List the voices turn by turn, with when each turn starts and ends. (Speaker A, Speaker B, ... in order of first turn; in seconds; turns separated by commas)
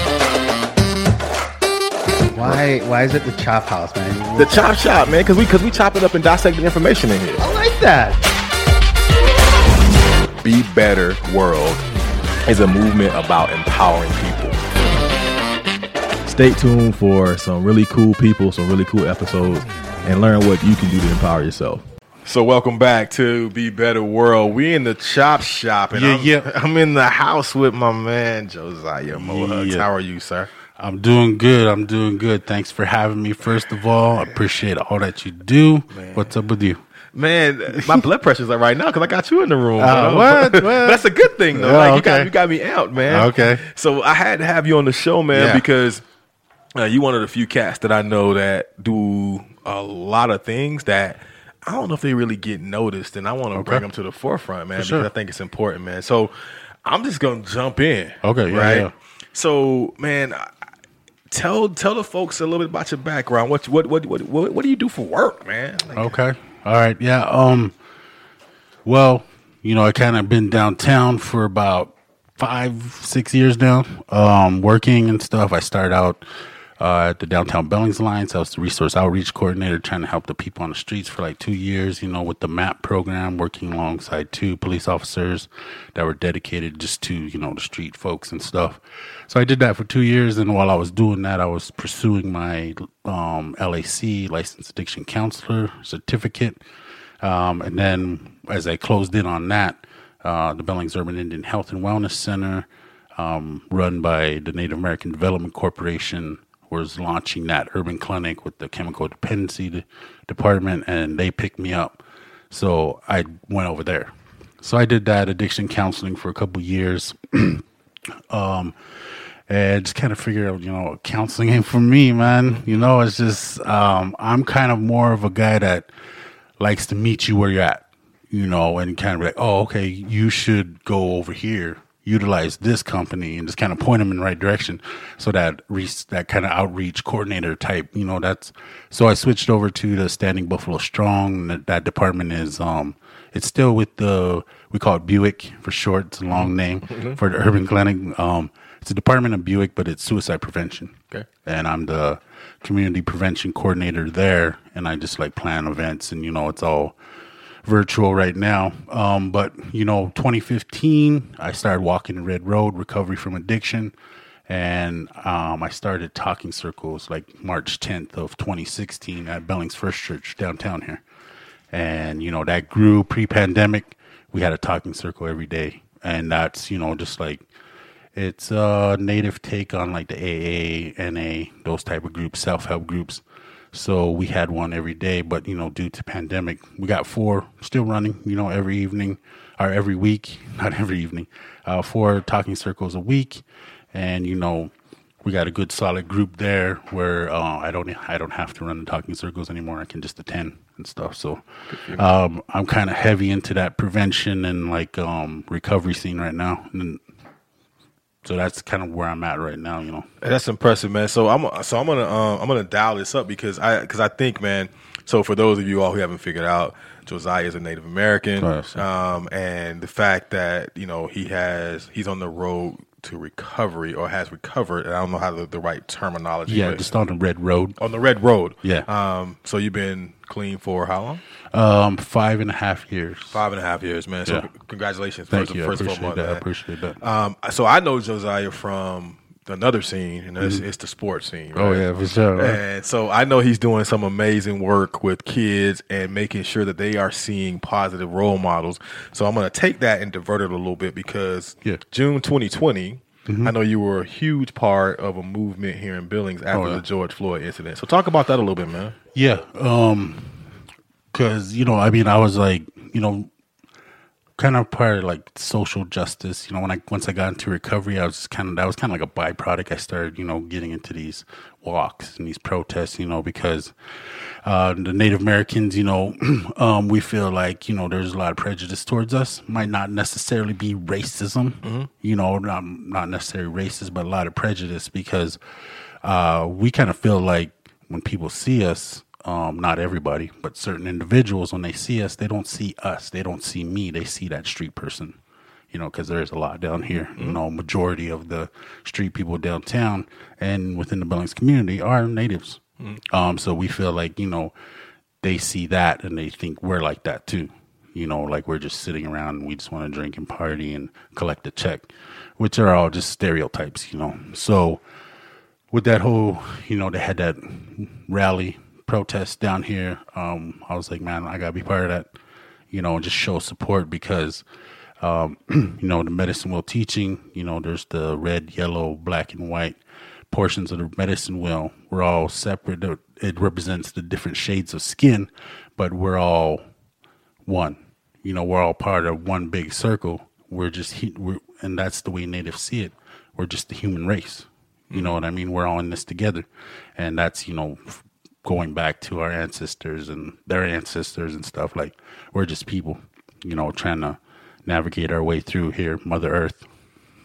Speaker A: 2.3-4.7, Speaker B: 2.4-2.6, Speaker B: 4.4-7.4, Speaker A: 7.4-8.2, Speaker B: 10.4-11.9, Speaker B: 12.4-14.6, Speaker B: 16.2-30.5, Speaker C: 25.9-26.5, Speaker C: 29.1-29.9, Speaker C: 30.8-36.8, Speaker B: 35.9-36.3, Speaker B: 37.1-46.0, Speaker C: 39.8-42.3, Speaker C: 43.1-43.6, Speaker C: 45.3-45.7, Speaker B: 46.8-56.3, Speaker C: 53.5-53.9, Speaker C: 54.8-55.1, Speaker B: 56.9-60.5, Speaker C: 58.2-58.9, Speaker B: 61.3-66.2, Speaker C: 65.9-67.7, Speaker C: 68.8-76.2, Speaker C: 76.8-96.6, Speaker C: 97.2-117.6, Speaker C: 118.3-118.8, Speaker C: 119.5-125.9, Speaker C: 126.6-150.9, Speaker B: 146.3-147.2, Speaker C: 151.5-156.9, Speaker C: 157.7-163.9, Speaker C: 164.5-171.0, Speaker C: 171.7-177.5, Speaker C: 178.2-194.7, Speaker C: 195.2-207.0, Speaker B: 201.7-202.1, Speaker C: 208.2-210.1, Speaker B: 210.2-226.9, Speaker C: 218.4-218.8, Speaker C: 226.5-227.8, Speaker B: 227.8-231.2, Speaker C: 231.5-233.4, Speaker B: 233.3-236.4, Speaker C: 235.3-237.0, Speaker B: 237.0-258.9, Speaker C: 240.4-240.7, Speaker C: 241.5-242.6, Speaker C: 253.3-253.5, Speaker C: 256.5-256.8, Speaker C: 259.1-260.5, Speaker C: 261.1-263.3, Speaker C: 264.4-273.7, Speaker C: 274.4-285.4, Speaker B: 281.6-281.9, Speaker C: 286.0-295.2, Speaker C: 295.7-304.5, Speaker C: 305.2-311.9, Speaker C: 312.4-314.8, Speaker C: 315.7-322.1, Speaker C: 322.7-324.4, Speaker C: 325.0-329.8, Speaker C: 330.3-336.6, Speaker C: 337.5-346.5, Speaker B: 344.9-345.2, Speaker C: 347.0-356.7